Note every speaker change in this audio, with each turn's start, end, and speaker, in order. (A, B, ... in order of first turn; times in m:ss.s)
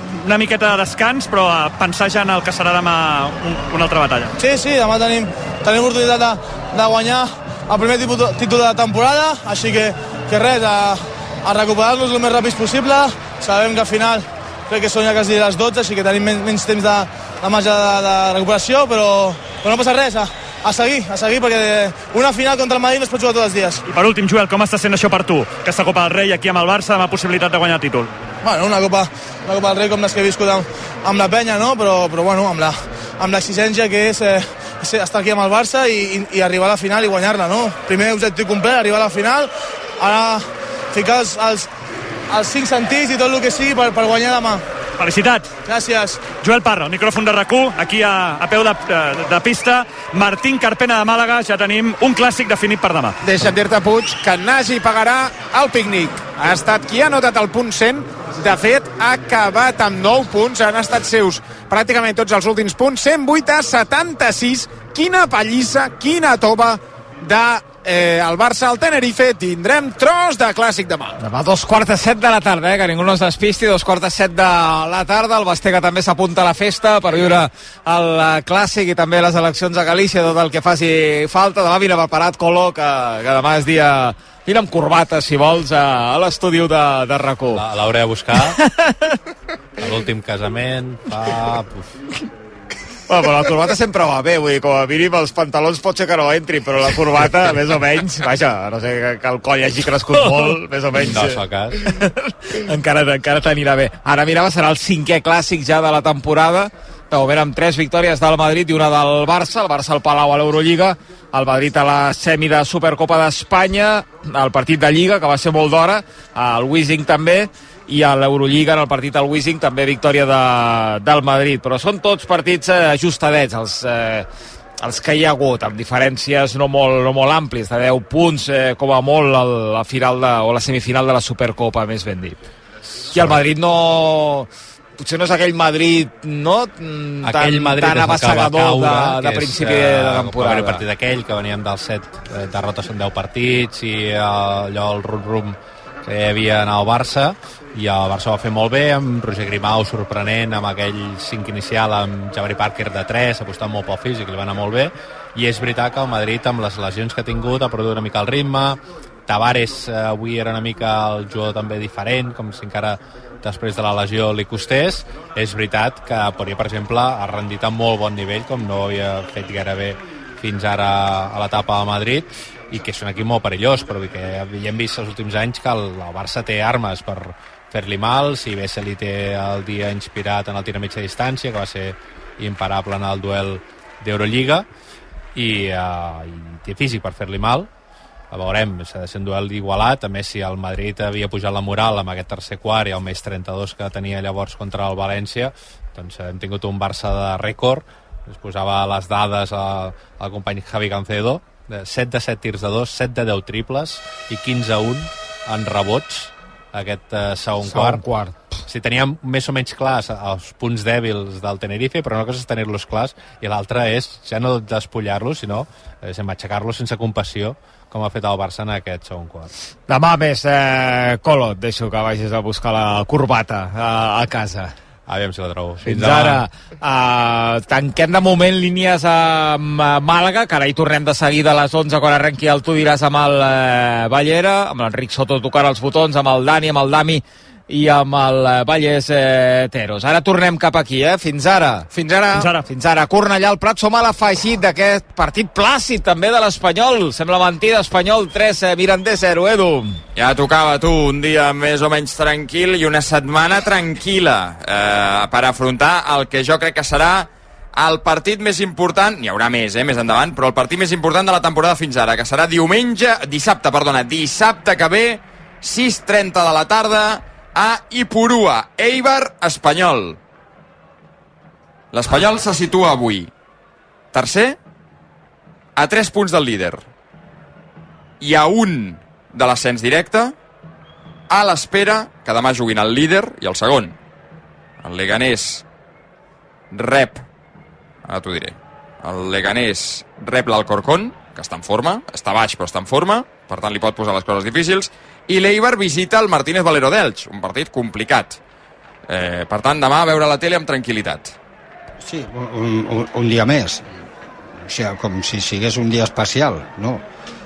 0:00.2-0:04.3 A
0:04.4-0:23.8 B
0:23.9-0:28.1 A
0:28.4-0:41.7 B
0:42.3-0:44.6 B
0:45.0-0:45.5 A
0:45.7-0:46.3 B
0:46.4-0:53.2 A
0:53.2-1:11.2 C
1:11.2-1:27.6 D
1:27.5-1:28.6 E
1:29.8-1:31.9 E
1:33.1-2:04.3 D
1:41.0-1:41.8 E
2:04.8-2:12.4 D
2:13.0-2:20.8 D
2:13.2-2:13.4 E
2:17.2-3:04.7 E
3:05.4-3:07.7 E
3:08.3-3:28.1 E
3:27.6-3:28.5 D
3:28.7-3:39.5 E
3:39.9-3:44.7 D
3:45.1-3:46.4 E
3:45.8-4:10.0 D
4:01.9-4:02.4 C
4:02.3-4:02.6 A
4:10.2-4:30.2 F
4:31.9-4:33.3 F
4:34.1-4:34.6 F
4:35.8-4:36.9 F
4:38.2-4:40.4 F
4:41.3-4:44.0 F
4:44.8-4:45.6 F
4:46.7-4:47.2 F
4:48.1-4:58.4 F
4:59.1-5:01.3 F
5:02.0-5:03.9 G
5:04.6-5:07.0 G